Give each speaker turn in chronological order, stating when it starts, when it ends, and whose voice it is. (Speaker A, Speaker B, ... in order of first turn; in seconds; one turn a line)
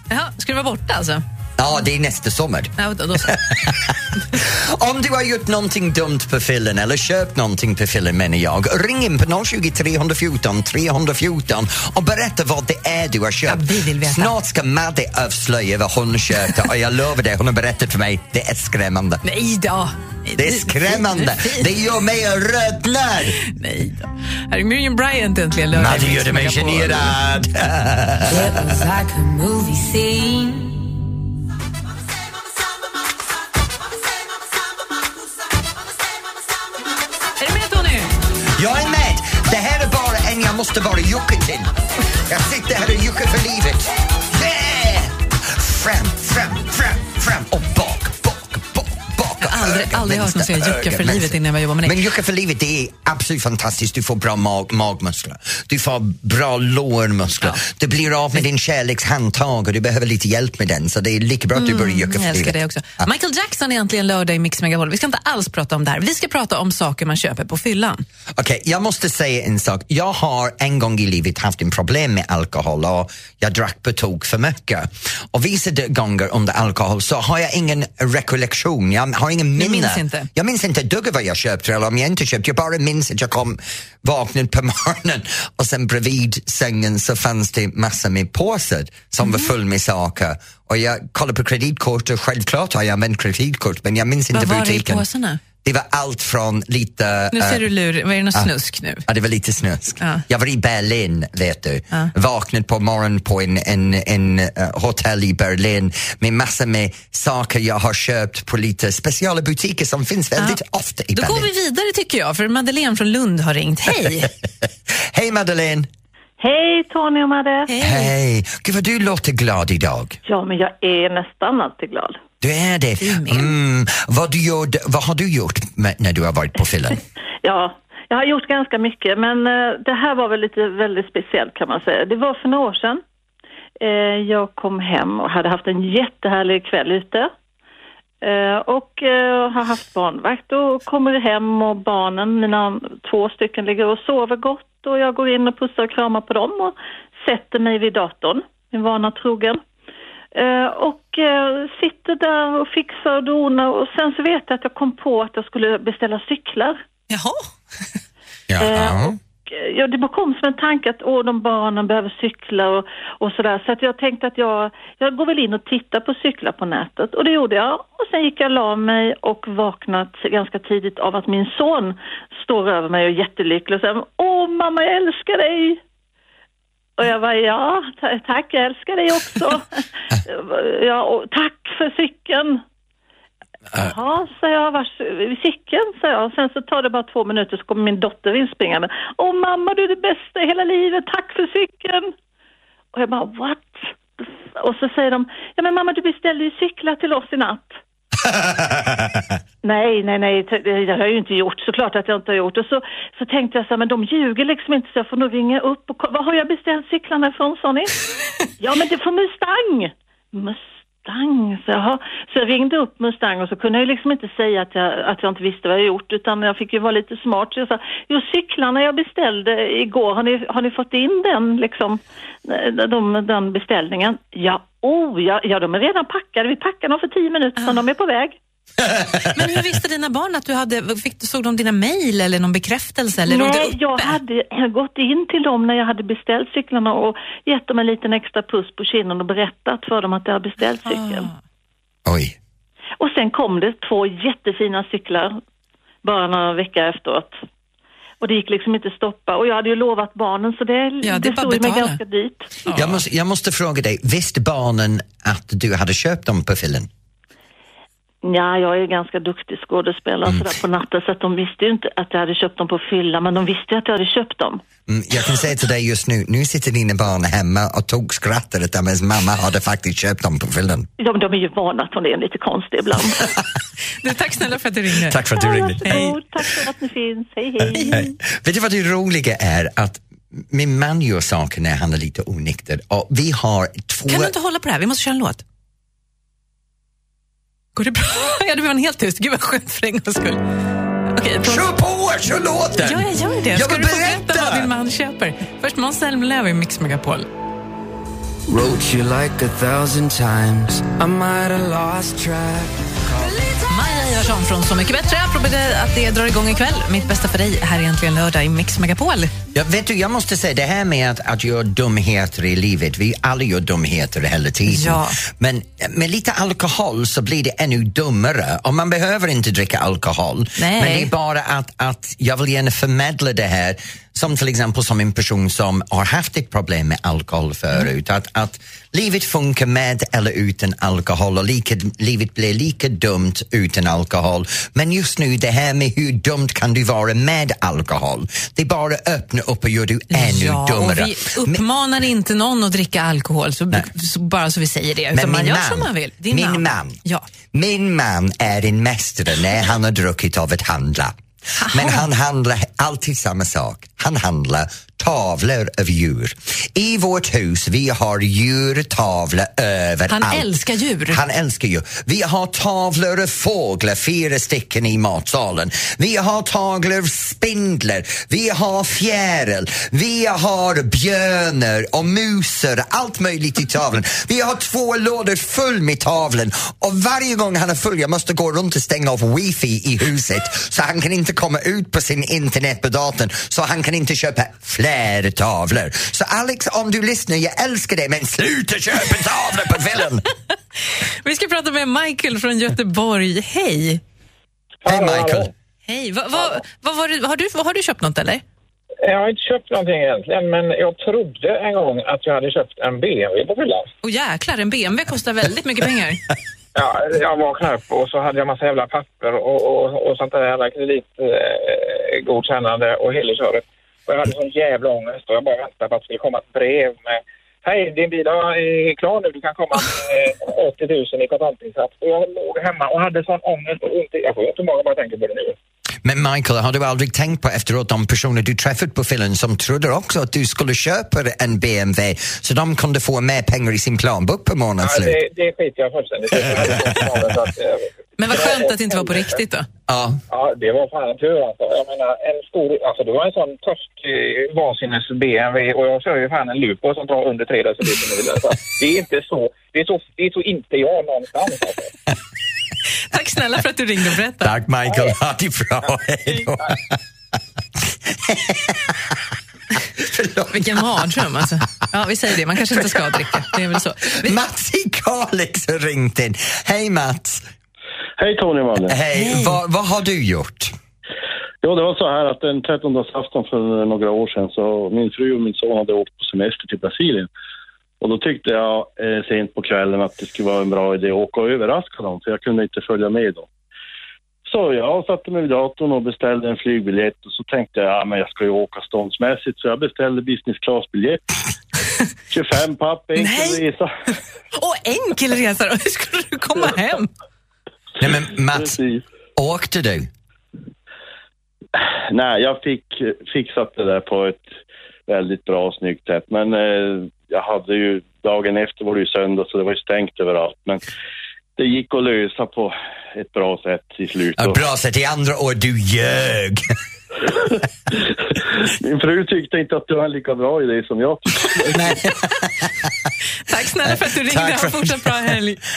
Speaker A: 0.1-1.2
Speaker B: 1.6-19.2
Speaker A: 2.8-3.4
Speaker A: 13.5-14.3
Speaker A: 19.2-21.7
Speaker B: 20.4-23.4
Speaker A: 23.4-27.2
Speaker B: 25.7-28.6
Speaker C: 28.3-29.1
Speaker D: 28.6-30.8
Speaker A: 37.4-38.1
Speaker B: 38.5-41.7
Speaker B: 42.3-63.1
Speaker A: 49.4-52.0
Speaker A: 61.5-68.0
Speaker B: 68.4-95.0
Speaker A: 79.6-80.3
Speaker A: 89.2-89.5
Speaker A: 94.3-95.4
Speaker B: 95.6-97.7
Speaker A: 97.3-99.0
Speaker B: 99.1-111.5
Speaker A: 111.1-114.3
Speaker B: 115.0-115.9
Speaker E: 116.4-117.7
Speaker A: 117.7-118.2
Speaker B: 117.8-120.2
Speaker E: 120.3-122.2
Speaker B: 122.4-127.0
Speaker A: 123.0-123.5
Speaker E: 127.4-133.0
Speaker E: 133.8-137.3
Speaker E: 138.2-149.6
Speaker E: 150.3-156.8
Speaker A: 157.1-157.4
Speaker B: 158.5-159.2
Speaker E: 158.6-175.8
Speaker E: 177.0-182.6
Speaker E: 183.8-192.1
Speaker E: 192.9-197.8
Speaker B: 198.2-199.3
Speaker E: 199.6-208.0
Speaker E: 208.6-228.4
Speaker A: 229.3-234.2
Speaker E: 233.3-241.3
Speaker A: 240.8-241.4
Speaker B: 242.1-242.4
Speaker E: 243.0-245.4
Speaker E: 246.0-247.4
Speaker E: 248.2-252.6
Speaker A: 251.0-252.0
Speaker A: 252.7-253.0
Speaker B: 252.7-256.9
Speaker E: 258.2-264.6
Speaker B: 264.9-270.9
Speaker E: 271.0-273.3
Speaker A: 274.0-275.2
Speaker B: 275.1-276.1
Speaker E: 275.3-278.1
Speaker A: 275.9-276.1
Speaker B: 277.7-284.3
Speaker A: 284.1-285.4
Speaker A: 287.8-290.4
Speaker A: 291.1-291.7
Speaker B: 291.4-294.7
Speaker A: 292.8-297.3
Speaker C: 298.5-303.4
Speaker A: 303.4-309.3
Speaker B: 309.5-341.6
Speaker A: 314.7-315.2
Speaker A: 320.6-321.1
Speaker A: 340.1-347.3
Speaker B: 345.1-347.0
Speaker B: 347.5-351.2
Speaker A: 351.6-352.1
Speaker B: 351.7-360.5
Speaker A: 360.1-361.2
Speaker B: 361.1-390.2
Speaker A: 391.2-394.0
Speaker F: 394.8-395.5
Speaker B: 394.9-395.5
Speaker A: 395.9-398.4
Speaker F: 399.0-403.9
Speaker A: 404.0-406.2
Speaker F: 406.8-425.6
Speaker B: 426.0-435.2
Speaker F: 434.8-439.4
Speaker A: 438.2-439.7
Speaker B: 439.9-440.2
Speaker F: 440.3-451.9
Speaker A: 453.1-454.6
Speaker B: 454.4-457.0
Speaker B: 458.1-459.2
Speaker B: 460.0-461.3
Speaker A: 460.5-464.4
Speaker B: 462.7-463.4
Speaker B: 464.2-467.5
Speaker G: 468.2-469.0
Speaker B: 468.9-470.7
Speaker A: 469.1-469.6
Speaker G: 471.6-477.3
Speaker G: 478.0-483.5
Speaker G: 484.5-491.2
Speaker G: 492.3-493.9
Speaker A: 493.2-493.6
Speaker A: 494.6-497.1
Speaker B: 498.0-498.8
Speaker G: 498.6-499.0
Speaker B: 499.4-500.1
Speaker G: 501.8-504.4
Speaker G: 505.1-510.8
Speaker G: 511.6-514.6
Speaker B: 514.4-516.7
Speaker G: 518.3-521.8
Speaker B: 521.6-522.9
Speaker A: 523.5-525.6
Speaker B: 523.8-525.3